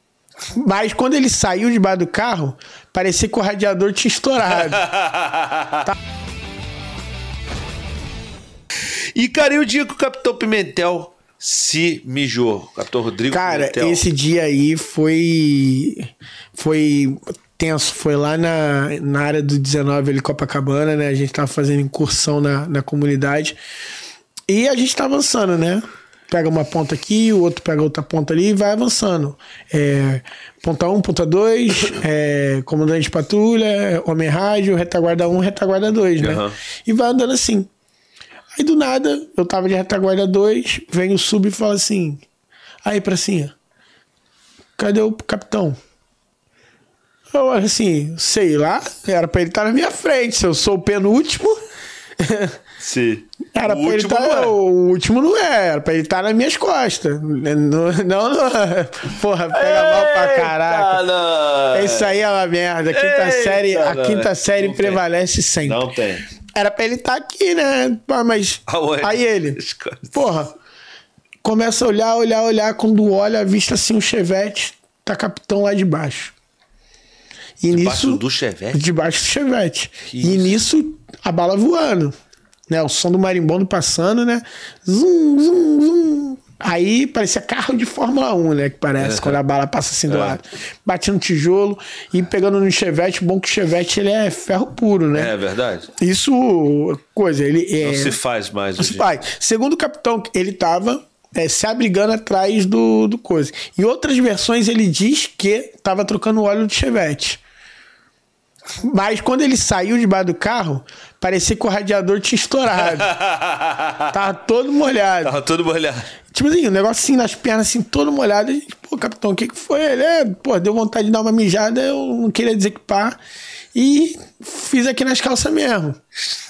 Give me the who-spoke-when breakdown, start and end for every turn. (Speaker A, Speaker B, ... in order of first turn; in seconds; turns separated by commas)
Speaker A: 0.5-4.9, Speaker B: 4.5-5.8, Speaker B: 8.8-14.1, Speaker A: 13.3-23.6, Speaker A: 24.5-37.7, Speaker B: 36.2-36.6, Speaker A: 38.6-42.2, Speaker A: 42.8-43.5, Speaker A: 44.8-45.8, Speaker A: 47.3-51.6, Speaker A: 52.2-52.6, Speaker B: 52.8-54.6, Speaker A: 53.5-61.1, Speaker B: 59.5-62.2, Speaker A: 61.7-65.8, Speaker B: 62.9-65.0, Speaker B: 65.6-66.2, Speaker A: 66.5-69.6, Speaker B: 68.7-70.3, Speaker A: 70.1-70.5, Speaker A: 71.4-76.3, Speaker A: 77.6-82.1, Speaker B: 77.7-78.8, Speaker B: 80.1-80.5, Speaker A: 82.7-95.3, Speaker B: 89.0-89.4, Speaker B: 90.1-90.4, Speaker B: 95.1-95.9, Speaker A: 95.9-98.2, Speaker B: 97.8-99.1, Speaker A: 98.8-107.4, Speaker A: 108.8-113.1, Speaker B: 112.8-114.1, Speaker A: 114.1-115.4, Speaker B: 115.2-116.1, Speaker A: 116.3-123.2, Speaker A: 123.7-126.0